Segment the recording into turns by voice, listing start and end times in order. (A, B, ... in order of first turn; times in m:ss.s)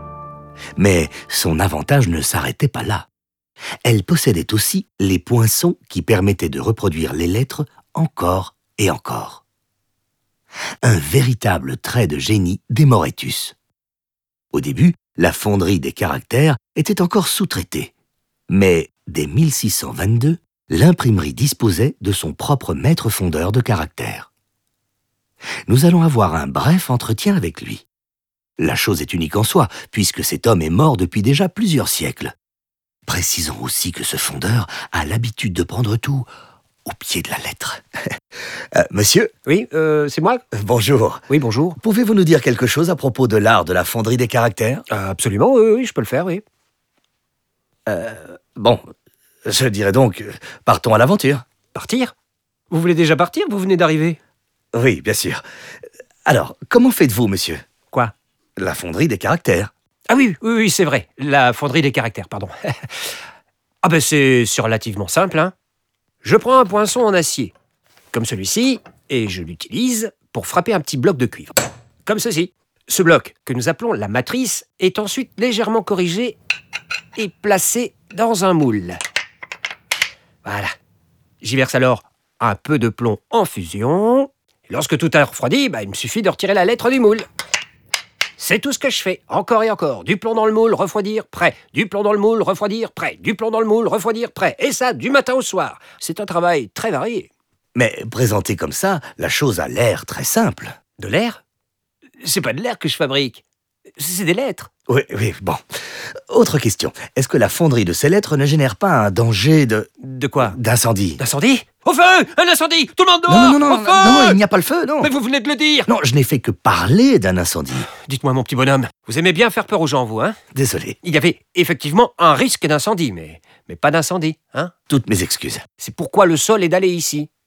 0:00.8-0:03.1 A
0:03.8-0:09.4 A
0:10.8-0:13.6 A
0:14.5-0:17.9 A
0:18.5-0:24.3 A
0:25.7-0:27.9 A
0:28.6-0:32.3 A
0:33.1-0:36.3 A
0:36.8-0:37.8 A
0:38.8-0:39.3 A
0:39.5-0:40.4 B
0:40.5-0:41.2 A
0:41.3-0:41.8 B
0:41.8-0:44.8 A
0:44.9-0:46.4 B
0:47.9-0:48.8 A
0:49.5-0:51.4 A
0:51.8-0:52.1 B
0:52.7-0:54.2 B
0:54.7-0:55.4 A
0:56.3-0:57.6 A
0:58.6-0:59.7 A
1:00.1-1:03.0 B
1:03.8-1:05.5 B
1:06.2-1:07.5 B
1:08.1-1:16.4 B
1:17.2-1:19.0 B
1:20.4-1:20.7 B
1:21.4-1:27.3 B
1:28.4-1:37.3 B
1:37.8-1:40.8 A
1:41.0-1:41.4 B
1:42.2-1:43.4 B
1:44.0-1:44.7 B
1:44.9-1:45.6 A
1:46.3-1:49.9 A
1:50.0-1:50.6 B
1:50.4-1:51.2 A
1:51.2-1:54.4 B
1:53.3-1:55.1 A
1:55.0-1:55.9 B
1:55.9-1:57.9 A
1:57.9-2:00.4 B
2:00.5-2:01.0 A
2:01.0-2:04.7 B
2:04.9-2:05.6 A
2:05.8-2:07.3 B